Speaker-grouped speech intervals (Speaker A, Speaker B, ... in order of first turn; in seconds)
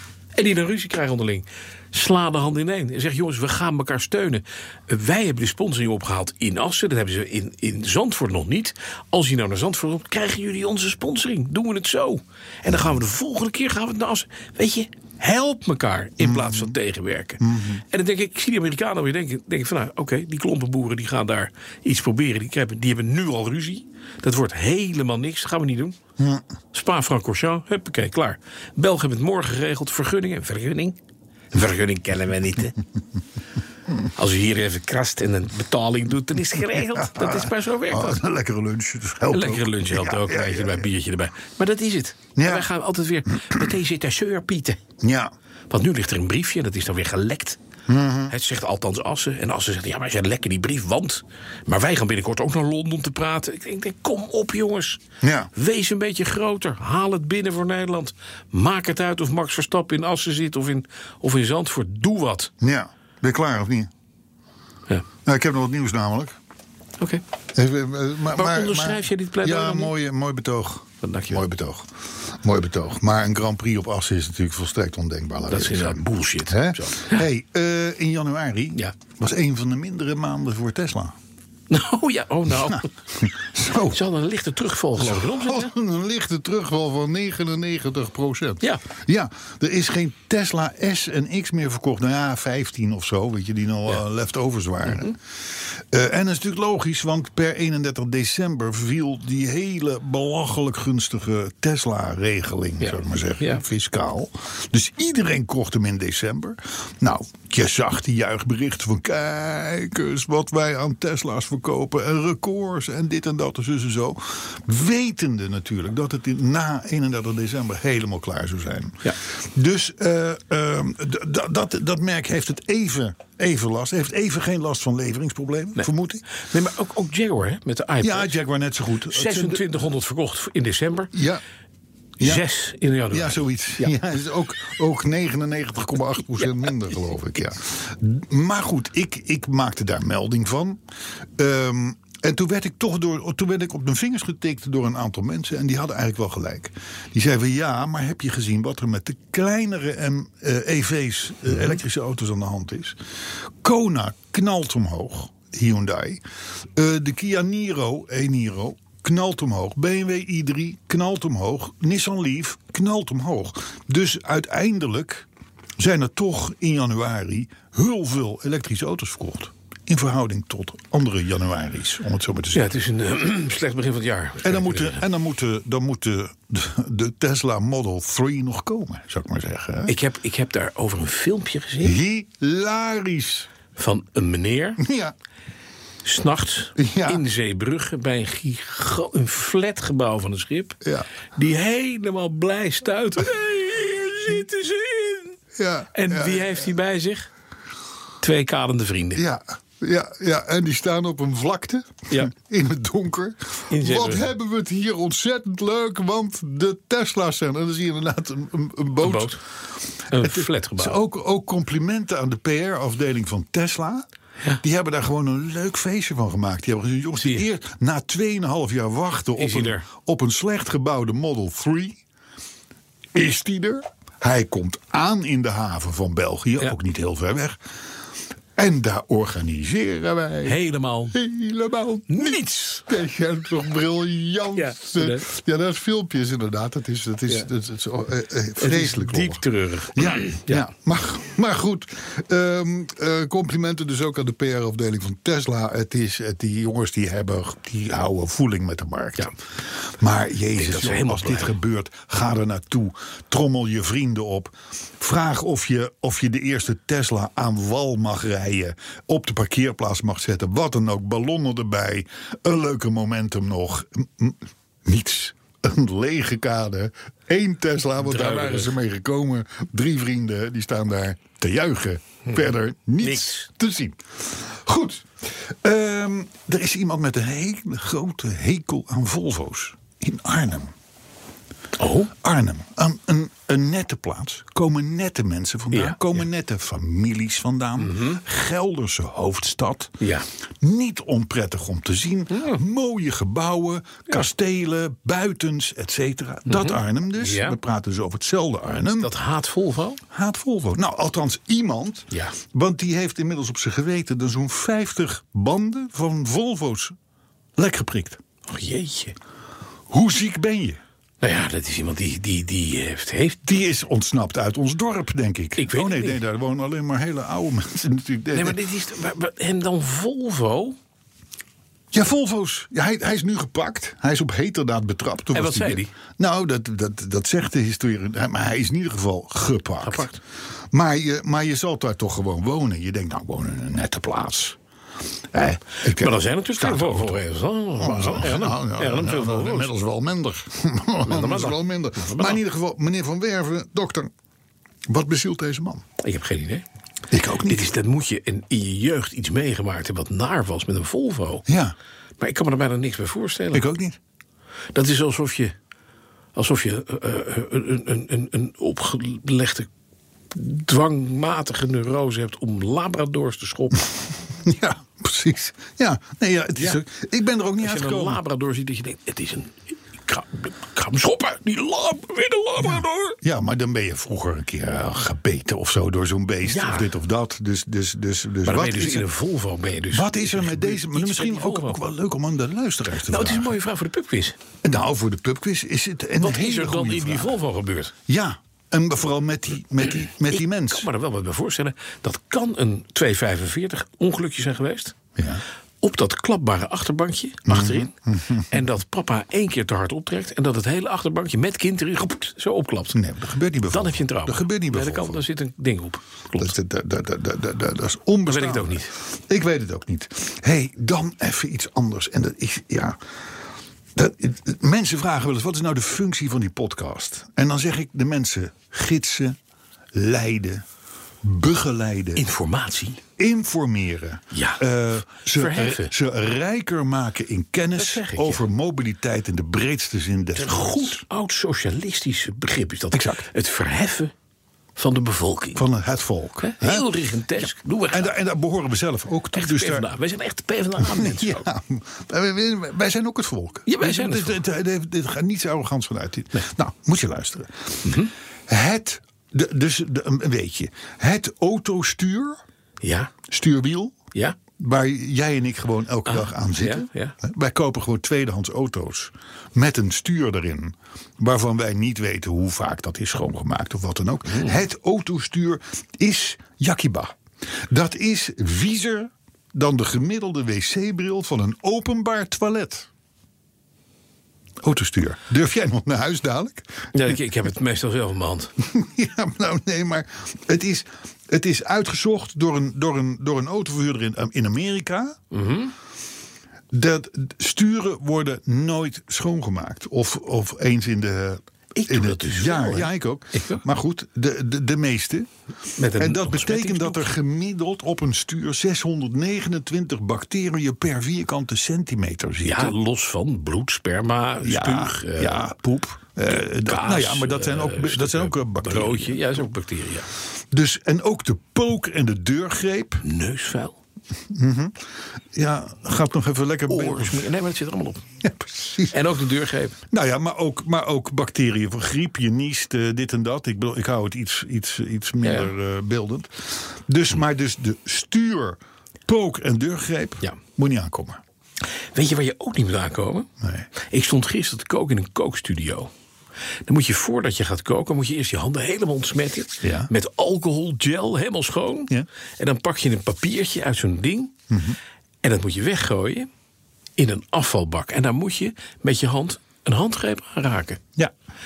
Speaker A: 0.3-26.0, 26.7-31.0, 31.5-32.8, 34.1-38.2, 39.3-44.8, 45.7-47.6, 48.3-55.0, 55.5-62.5, 68.3-69.9, 71.0-71.4, 75.5-77.2, 81.7-82.9, 83.9-85.7, 94.8-95.1, 102.8-103.6, 125.8-128.3, 129.0-131.1, 132.2-133.9, 172.5-175.0, 179.9-182.0, 183.7-184.8, 186.0-190.8, 191.3-195.4, 195.9-197.3, 198.2-199.2, 203.7-204.3, 209.0-209.4, 210.1-211.0, 217.2-217.5, 219.3-219.8, 230.4-231.2, 232.1-232.8, 234.5-235.2, 238.6-240.7, 250.5-251.5, 268.0-268.8, 273.0-273.5, 281.8-282.1, 285.7-286.0, 287.8-288.2, 290.0-290.3, 292.3-292.6, 296.5-297.6, 298.9-300.0, 302.1-302.4, 308.5-309.1, 311.2-313.4, 315.6-316.2, 318.3-320.8, 325.3-325.9, 329.8-330.2, 335.8-339.7, 341.0-342.4, 346.0-346.6, 347.4-351.4, 352.2-353.6, 354.7-355.5, 356.3-359.7, 360.3-363.9, 366.6-366.8, 367.6-373.2, 376.4-376.9, 378.4-381.8, 383.0-384.4, 386.2-387.9, 390.3-394.9, 395.8-403.0, 403.7-406.5, 408.2-408.9, 422.1-423.0, 424.3-424.6, 425.2-425.9, 427.8-428.4, 430.3-434.1, 434.8-435.6, 436.4-438.1, 439.3-441.4, 443.6-444.4, 447.8-448.1, 452.8-453.1, 456.1-457.1, 464.3-464.6, 476.9-478.5, 485.3-485.7, 491.7-493.6, 495.8-497.1, 502.4-505.5, 506.2-510.1, 513.0-513.8, 516.7-518.0, 518.9-519.8, 525.2-525.5, 531.9-533.3, 533.8-535.9, 536.6-544.4, 545.2-546.3, 547.0-550.8
Speaker B: 16.2-16.7, 17.4-17.8, 26.2-26.4, 36.8-40.9, 42.4-42.7, 45.0-45.3, 47.9-48.3, 55.2-55.5, 62.6-63.9, 65.2-66.3, 67.5-81.1, 82.6-84.0, 85.0-95.2, 95.9-126.2, 128.0-129.7, 131.1-131.4, 132.2-132.4, 133.1-140.8, 141.4-153.0, 153.6-156.2, 156.8-165.3, 165.8-172.8, 174.4-179.9, 181.8-183.5, 184.8-185.1, 186.8-187.2, 190.8-191.1, 195.6-196.7, 199.1-209.4, 210.1-214.1, 214.6-222.0, 223.1-227.6, 228.6-230.6, 231.1-239.4, 239.9-249.3, 249.8-280.7, 282.1-290.0, 290.6-299.1, 300.1-306.9, 307.6-308.2, 309.9-310.8, 313.4-318.6, 321.9-330.1, 330.7-334.6, 335.3-337.2, 337.8-344.1, 344.9-345.8, 347.1-347.7, 351.5-351.7, 353.5-354.0, 364.4-368.2, 372.6-379.1, 379.9-383.5, 384.6-387.3, 388.1-390.9, 395.1-395.4, 397.4-398.5, 402.9-405.2, 406.4-413.0, 413.9-419.4, 419.9-420.6, 421.2-422.2, 423.2-431.0, 432.9-433.2, 435.5-439.9, 440.8-452.4, 453.3-454.0, 454.6-467.2, 467.7-472.9, 474.6-477.1, 478.6-485.2, 486.7-495.3, 495.9-502.8, 504.4-509.4, 510.5-513.0, 514.3-514.8, 515.3-517.3, 518.2-519.0, 519.9-531.2, 533.4-533.7, 539.6-539.9, 544.5-544.8